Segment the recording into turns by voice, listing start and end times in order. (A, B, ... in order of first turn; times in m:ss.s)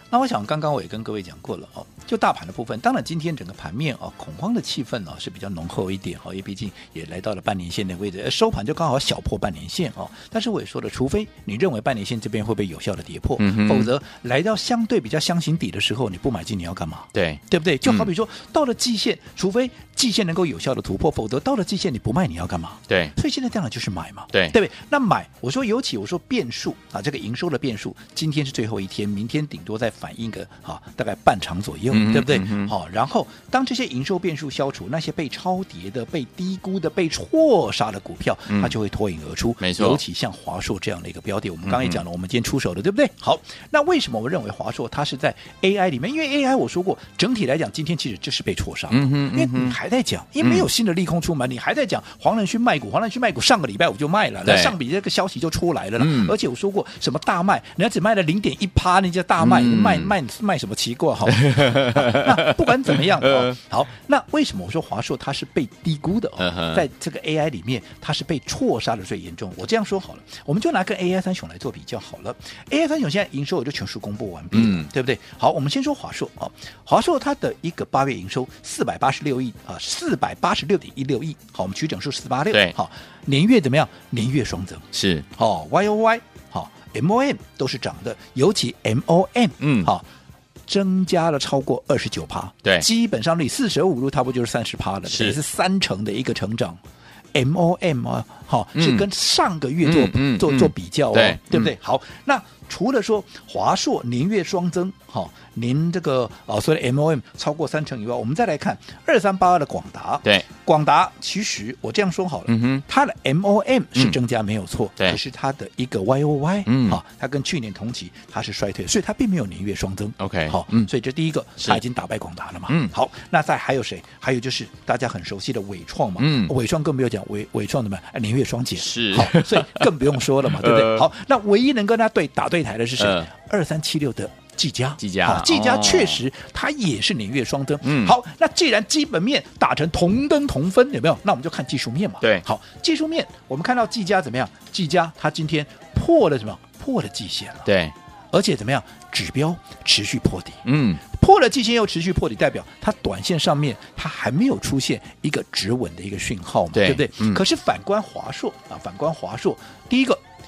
0:00.1-1:30.0 A
0:13.4-0:13.9 B
0:17.1-0:18.1 B
0:22.9-0:23.1 B
0:31.9-0:32.7 B
0:39.6-0:40.0 B
0:41.7-0:42.0 B
0:48.9-0:49.8 B
0:50.4-0:50.7 B
0:54.4-0:54.7 B
0:56.0-0:56.3 B
0:59.4-1:00.1 B
1:01.3-1:03.6 B
1:06.4-1:06.8 B
1:14.5-1:14.9 B
1:24.9-1:25.2 B
1:29.6-1:29.9 B
1:30.7-1:36.8 A
1:35.1-1:35.4 B
1:37.3-2:27.7 A
1:38.8-1:39.1 B
1:39.8-1:41.7 B
1:52.5-1:52.8 B
1:56.7-1:57.0 B
2:00.2-2:00.9 B
2:02.7-2:02.9 B
2:06.2-2:06.5 B
2:08.8-2:11.1 B
2:13.0-2:13.3 B
2:15.0-2:16.2 B
2:17.8-2:18.2 B
2:27.7-2:27.9 B
2:28.3-2:40.2 A
2:30.6-2:31.0 B
2:36.7-2:37.4 B